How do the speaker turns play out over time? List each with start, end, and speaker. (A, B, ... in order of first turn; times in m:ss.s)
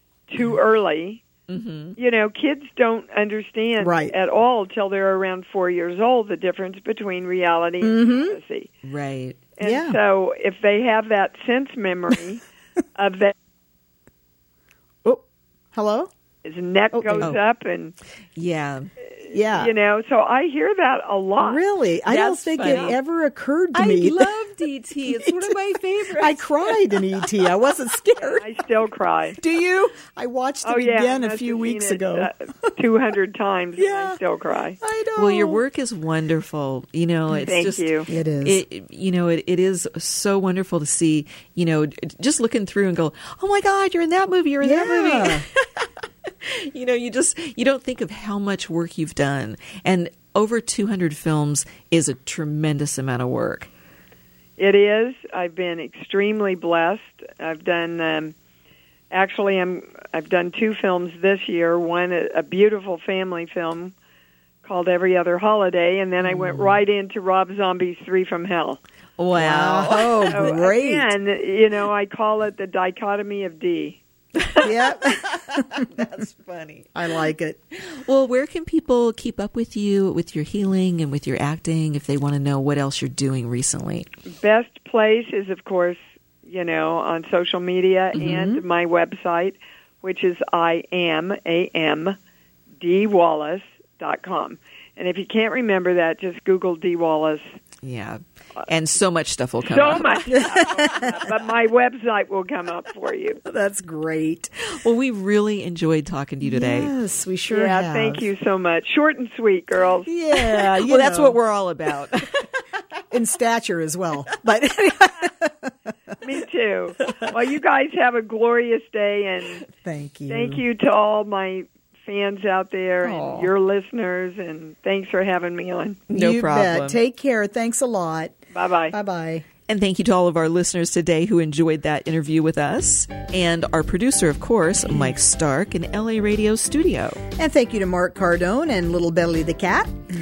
0:00.3-0:01.2 A
0:01.5-0:02.0 B
0:02.0-0:08.7 A
0:03.8-0:04.1 C
0:07.8-0:08.4 C
0:08.8-0:09.4 B
0:09.6-0:12.4 A
0:09.6-0:10.0 C
0:12.9-0:13.3 A
0:15.7-0:16.1 C
0:16.4-0:17.9 A
0:16.9-0:17.3 C
0:18.4-0:18.9 B
0:19.2-0:21.6 A
0:19.3-0:19.7 C
0:21.4-0:24.3 C
0:22.1-0:23.0 B
0:22.6-0:22.9 A
0:23.7-0:26.7 B
0:25.2-0:25.5 C
0:26.2-0:28.5 C
0:28.4-0:29.4 A
0:29.4-0:32.5 C
0:30.6-0:34.8 A
0:33.8-0:34.2 C
0:34.8-0:35.6 C
0:35.2-0:45.9 B
0:37.3-0:38.1 A
0:38.1-0:38.6 C
0:44.6-0:45.4 C
0:46.4-0:53.7 B
0:54.6-0:58.3 A
0:59.1-1:03.9 A
1:04.6-1:08.8 A
1:06.2-1:06.8 B
1:09.2-1:10.4 B
1:09.3-1:11.1 C
1:10.3-1:14.0 A
1:14.5-1:16.9 B
1:14.6-1:15.9 C
1:16.9-1:17.6 C
1:17.8-1:24.1 B
1:24.4-1:32.2 A
1:28.2-1:28.6 C
1:32.8-1:37.4 A
1:37.8-1:40.8 B
1:39.6-1:43.4 A
1:40.3-1:41.3 C
1:43.4-1:44.5 C
1:44.7-1:46.9 B
1:46.4-1:48.3 C
1:47.5-1:50.1 A
1:50.0-1:51.4 C
1:50.3-1:52.5 B
1:53.1-1:55.7 C
1:56.2-1:59.6 A
1:59.8-2:00.6 C
2:00.3-2:06.0 A
2:03.0-2:03.5 C
2:06.1-2:07.0 B
2:06.1-2:08.4 C
2:08.5-2:09.0 A
2:08.9-2:09.4 C
2:09.7-2:17.2 B
2:17.4-2:19.9 C